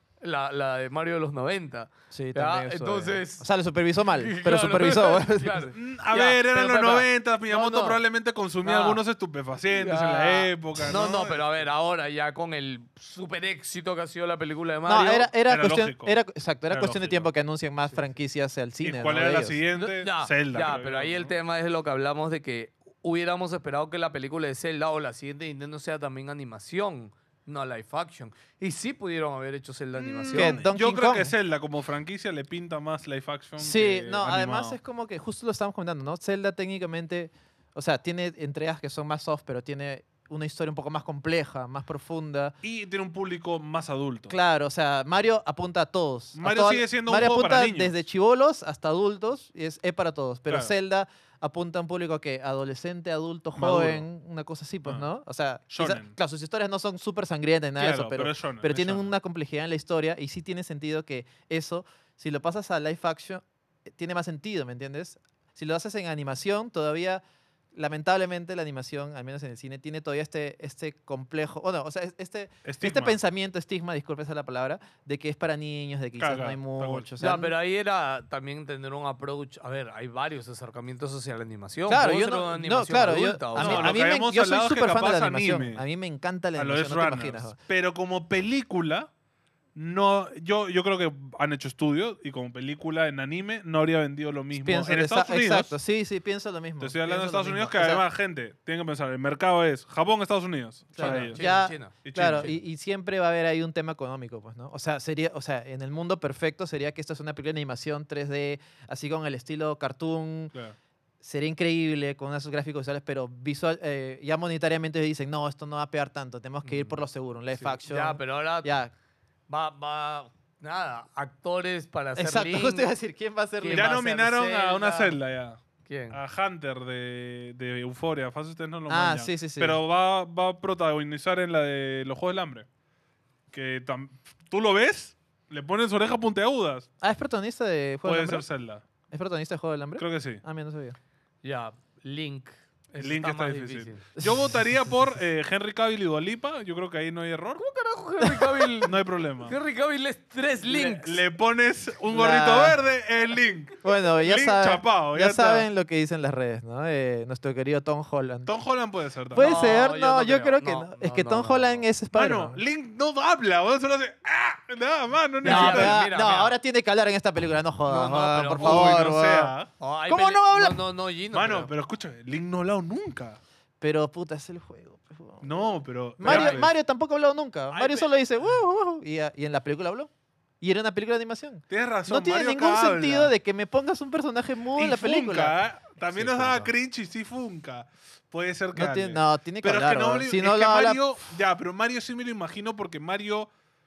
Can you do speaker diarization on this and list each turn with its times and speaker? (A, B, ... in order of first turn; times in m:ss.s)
0:00.2-0:03.5 A
0:02.1-0:05.7 B
0:04.1-0:08.0 A
0:05.7-0:11.4 C
0:08.6-0:09.0 A
0:09.7-0:15.3 A
0:14.9-0:19.6 B
0:15.5-0:16.2 C
0:16.7-0:17.3 C
0:18.8-0:21.3 C
0:19.8-0:30.6 A
0:30.0-0:34.8 C
0:30.3-0:31.3 B
0:33.6-0:42.6 B
0:42.6-0:44.4 C
0:44.3-1:07.2 B
0:46.4-0:47.9 C
0:50.5-0:50.7 C
0:53.6-0:54.0 C
0:55.7-0:56.1 C
0:57.8-0:59.1 C
1:07.7-1:17.5 B
1:12.6-1:13.2 C
1:16.2-1:17.1 C
1:17.2-1:23.9 A
1:21.9-1:27.6 B
1:23.6-1:25.8 C
1:26.6-1:29.1 C
1:29.8-1:35.7 C
1:34.6-1:38.0 B
1:36.8-1:41.4 C
1:40.9-1:50.5 B
1:41.0-1:42.5 A
1:42.0-1:42.6 C
1:51.2-1:58.9 B
1:57.6-1:58.7 A
1:59.5-2:02.9 A
2:02.2-2:04.4 B
2:03.6-2:05.1 A
2:03.7-2:12.6 C
2:05.9-2:06.2 A
2:08.9-2:09.8 B
2:13.5-2:16.9 C
2:17.0-2:18.4 B
2:18.0-2:18.8 C
2:19.1-2:21.0 B
2:20.0-2:20.4 C
2:21.4-2:24.1 A
2:23.0-2:27.6 C
2:27.6-2:31.2 A
2:28.8-2:29.6 C
2:30.6-2:35.7 C
2:32.1-2:32.8 B
2:33.8-2:38.5 B
2:38.4-2:39.5 C
2:39.3-2:42.6 B
2:39.4-2:41.8 A
2:42.1-2:46.0 C
2:45.4-2:46.6 A
2:45.4-2:49.5 B
2:47.9-2:49.0 A
2:48.6-2:49.7 C
2:49.8-2:51.7 A
2:50.1-2:50.8 B
2:51.3-2:53.4 C
2:53.8-2:55.4 B
2:55.4-2:56.7 C
2:56.2-3:00.1 B
2:56.2-2:56.6 A
3:00.6-3:05.5 B
3:01.7-3:03.3 C
3:04.8-3:13.5 C
3:08.8-3:11.0 B